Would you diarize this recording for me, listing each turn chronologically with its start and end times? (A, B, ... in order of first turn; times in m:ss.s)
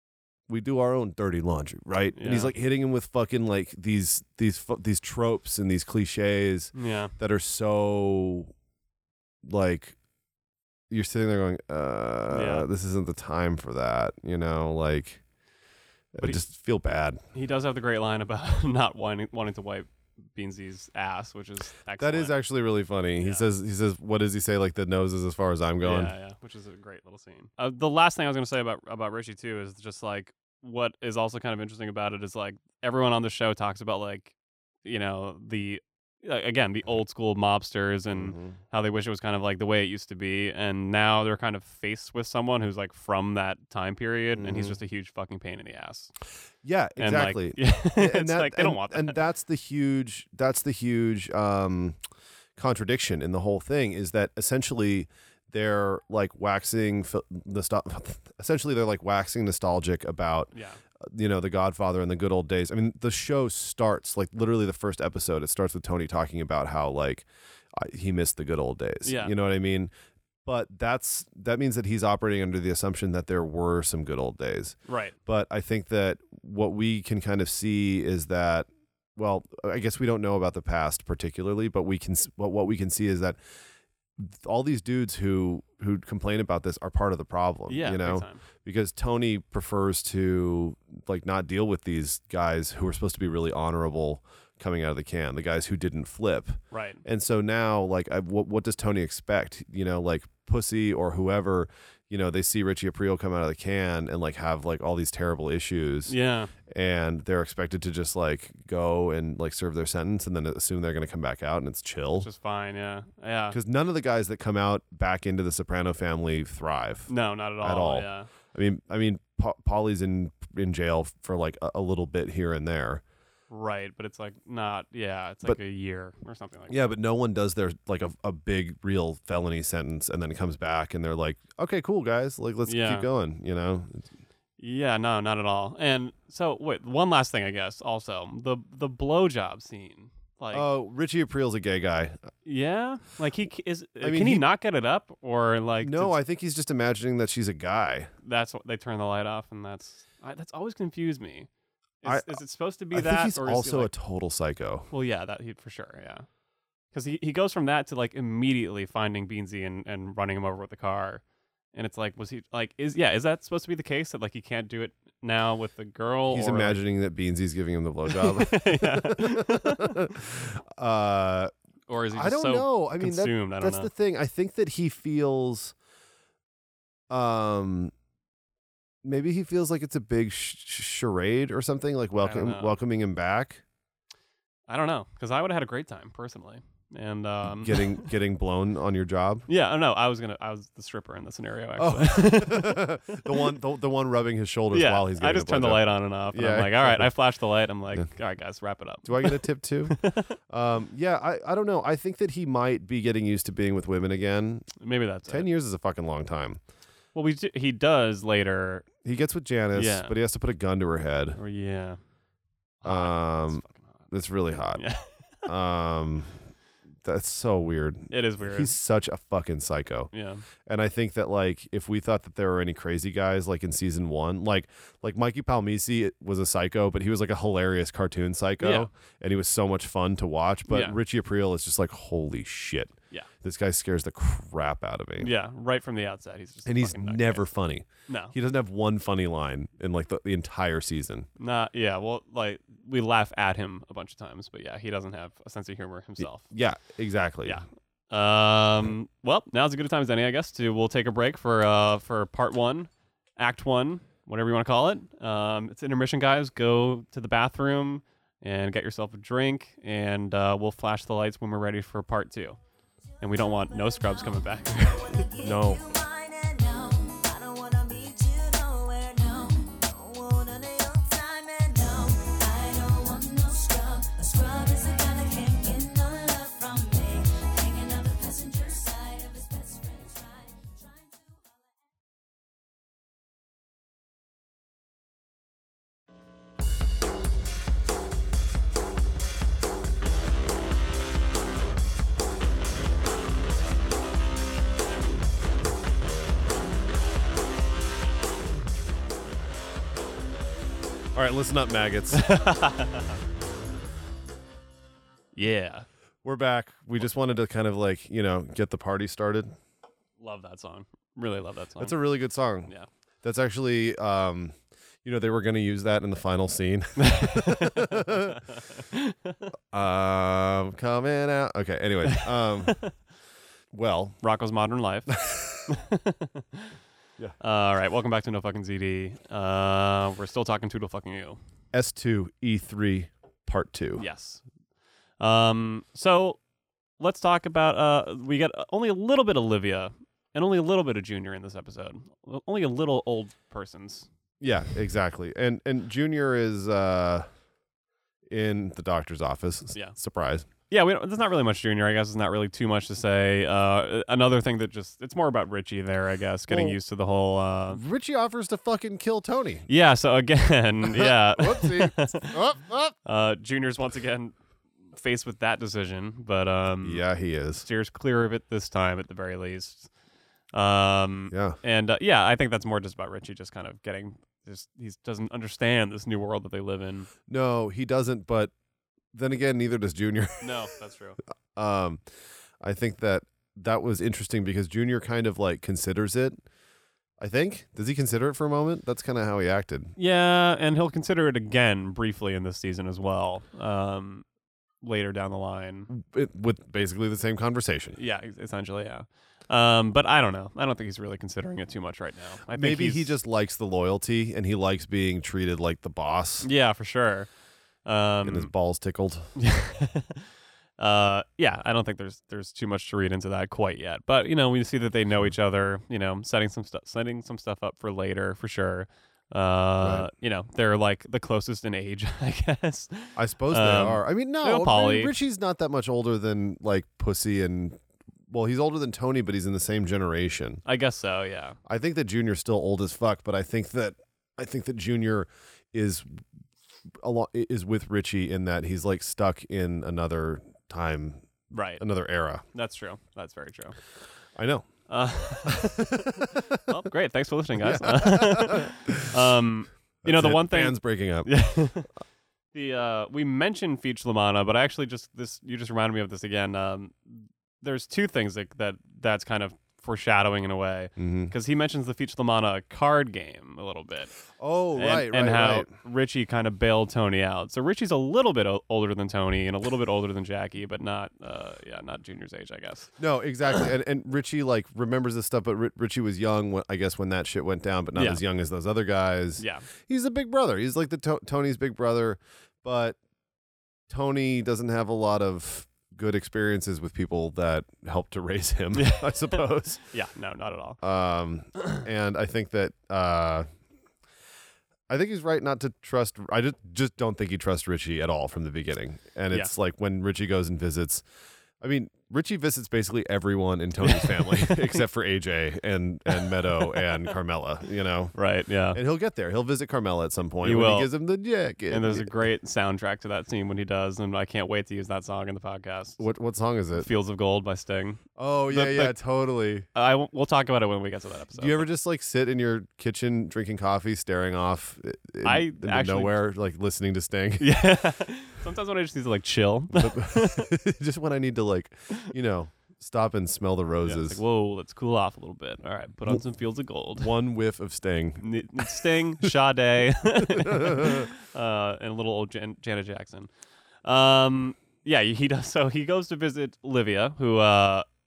0:00.5-0:08.5 A
0:02.2-0:02.5 B
0:06.7-0:07.1 B
0:09.4-0:10.0 A
0:10.9-0:15.2 A
0:12.3-0:12.7 B
0:16.1-0:17.2 A
0:17.3-0:22.4 B
0:22.0-0:26.1 A
0:25.8-0:34.3 B
0:34.8-0:46.1 B
0:38.1-0:38.6 A
0:44.4-0:44.8 A
0:46.6-0:52.0 A
0:47.0-0:49.2 B
0:52.6-1:00.5 A
1:00.5-1:00.8 B
1:01.0-1:09.9 A
1:09.0-1:09.3 B
1:10.4-1:23.4 A
1:14.9-1:15.1 B
1:24.2-1:46.1 A
1:27.7-1:28.4 B
1:36.7-1:37.0 B
1:46.1-1:46.5 B
1:46.7-1:52.3 A
1:52.2-1:53.6 B
1:53.5-2:03.0 A
1:57.1-1:58.3 B
2:03.5-2:06.8 B
2:06.7-2:14.1 A
2:12.6-2:13.1 B
2:14.6-2:20.7 B
2:20.5-2:22.2 A
2:22.4-2:26.2 B
2:24.0-2:24.4 A
2:25.8-2:28.1 A
2:28.2-2:31.5 B
2:32.0-2:33.9 B
2:32.0-2:32.3 A
2:32.9-2:34.9 A
2:34.9-2:36.2 B
2:36.9-2:41.2 B
2:41.7-2:46.8 B
2:46.3-2:51.5 A
2:48.1-2:50.1 B
2:51.9-2:53.9 B
2:52.1-2:55.7 A
2:57.1-2:57.9 A
2:59.0-3:03.6 A
3:02.2-3:02.7 B
3:04.7-3:08.1 B
3:07.4-3:09.4 A
3:09.5-3:13.5 B
3:11.8-3:17.1 A
3:14.7-3:20.3 B
3:19.0-3:20.0 A
3:20.5-3:24.7 A
3:24.8-3:25.5 B
3:25.3-3:26.6 A
3:27.1-3:28.9 B
3:29.0-3:31.4 A
3:29.7-3:30.1 B
3:31.4-3:32.0 B
3:32.8-3:33.9 B
3:32.8-3:34.8 A
3:34.7-3:35.1 B
3:35.4-3:36.3 A
3:37.0-3:40.1 A
3:38.1-3:38.7 B
3:40.1-3:40.4 B
3:40.6-3:55.3 A
3:48.6-3:48.9 B
3:50.7-3:51.0 B
3:55.2-3:57.4 B
3:56.6-4:01.3 A
3:58.1-3:58.3 B
4:01.4-4:06.5 B
4:06.2-4:07.6 A
4:07.4-4:22.6 B
4:23.2-4:25.2 B
4:23.3-4:41.8 C
4:25.4-4:25.8 A
5:01.1-5:02.3 A
5:02.1-5:03.2 B
5:05.4-5:05.9 B
5:06.2-5:09.5 A
5:10.2-5:12.0 B
5:11.8-5:12.7 A
5:13.2-5:18.4 A
5:17.0-5:19.4 B
5:19.7-5:22.8 A
5:22.0-5:22.9 B
5:23.7-5:24.2 A
5:24.2-5:26.7 B
5:25.1-5:25.6 A
5:27.4-5:31.4 B
5:31.7-5:34.0 A
5:34.0-5:34.4 B
5:35.2-5:36.4 B
5:37.0-5:44.1 B
5:44.4-5:47.2 A
5:48.3-5:50.5 A
5:50.7-5:57.8 B
5:56.5-5:56.8 A
5:57.7-5:59.7 A
5:59.7-6:02.4 B
6:00.9-6:02.9 A
6:03.0-6:04.3 B
6:04.9-6:07.0 B
6:06.8-6:07.6 A
6:07.6-6:09.9 B
6:10.5-6:17.1 B
6:11.3-6:11.6 A
6:17.3-6:18.5 A
6:19.1-6:20.7 A
6:20.4-6:21.2 B
6:21.6-6:22.0 A
6:22.6-6:26.4 A
6:27.2-6:29.9 A
6:30.0-6:34.2 B
6:34.8-6:35.9 B
6:35.9-6:38.0 A
6:37.9-6:43.1 B
6:42.5-6:46.5 A
6:46.4-6:47.3 B
6:47.8-6:48.5 B
6:48.2-6:49.3 A
6:49.4-7:05.1 B
6:59.8-7:00.1 A
7:03.2-7:10.6 A
7:10.6-7:11.6 B
7:11.6-7:16.2 A
7:16.9-7:21.3 A
7:21.5-7:21.8 B
7:21.8-7:22.4 A
7:22.5-7:23.8 B
7:24.4-7:24.7 A
7:24.9-7:31.9 B
7:25.4-7:26.6 A
7:27.6-7:29.2 A
7:30.0-7:31.3 A
7:32.5-7:44.2 B
7:41.0-7:41.3 A
7:44.4-7:45.7 A
7:44.7-7:52.9 B
7:53.0-8:03.0 A
7:57.9-7:58.2 B
7:59.4-7:59.6 B
8:03.9-8:09.8 A
8:08.7-8:10.8 B
8:10.8-8:13.5 A
8:14.9-8:21.0 A
8:21.6-8:28.2 A
8:23.8-8:24.8 B
8:26.1-8:27.1 B
8:28.1-8:28.8 B
8:28.7-8:32.1 A
8:30.4-8:30.9 B
8:31.7-8:36.0 B
8:36.0-8:36.9 A
8:36.7-8:39.0 B
8:38.2-8:39.6 A
8:39.7-8:41.6 B
8:41.4-8:47.5 A
8:45.2-8:46.2 B
8:47.4-8:50.5 B
8:49.7-8:54.2 A
8:53.8-8:57.1 B
8:57.0-8:59.3 A
8:58.2-9:03.3 B
9:00.2-9:01.1 A
9:03.8-9:07.8 B